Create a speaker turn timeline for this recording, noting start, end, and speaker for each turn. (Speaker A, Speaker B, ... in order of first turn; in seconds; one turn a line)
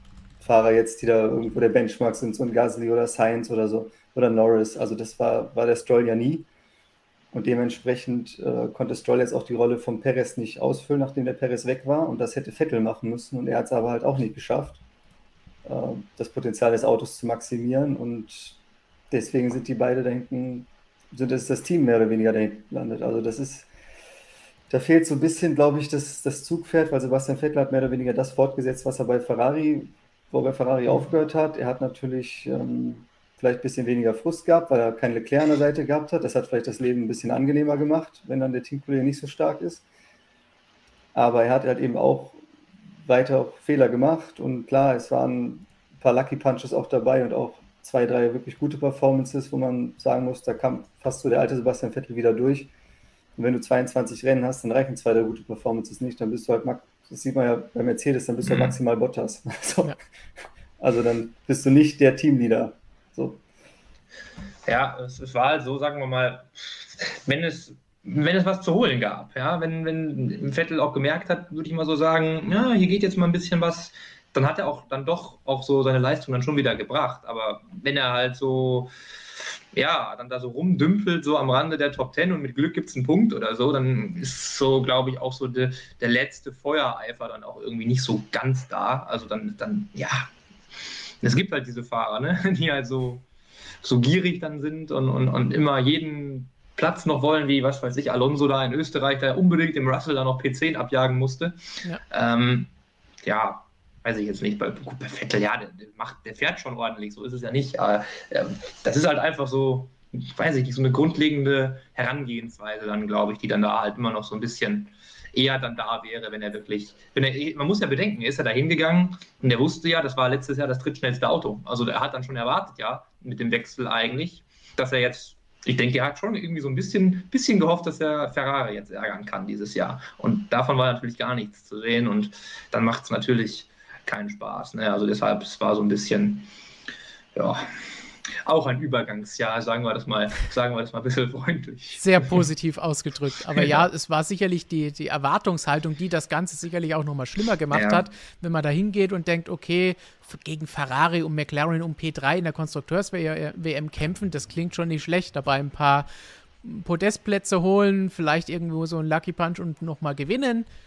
Speaker A: 0.4-6.5
Speaker A: 7.3-14.8
Speaker A: 15.7-18.6
Speaker A: 19.1-23.7
Speaker A: 24.7-39.8
Speaker A: 41.1-42.4
Speaker A: 43.0-52.7
Speaker A: 53.4-60.0
Speaker B: 58.5-58.8
Speaker A: 60.8-63.4
Speaker B: 64.7-78.9
Speaker B: 79.7-90.3
Speaker B: 91.2-93.2
Speaker B: 93.8-102.7
Speaker B: 103.2-136.5
Speaker B: 137.3-137.7
Speaker B: 138.4-142.4
Speaker C: 142.0-156.1
Speaker B: 143.6-143.8
Speaker B: 147.7-148.1
Speaker C: 156.6-160.7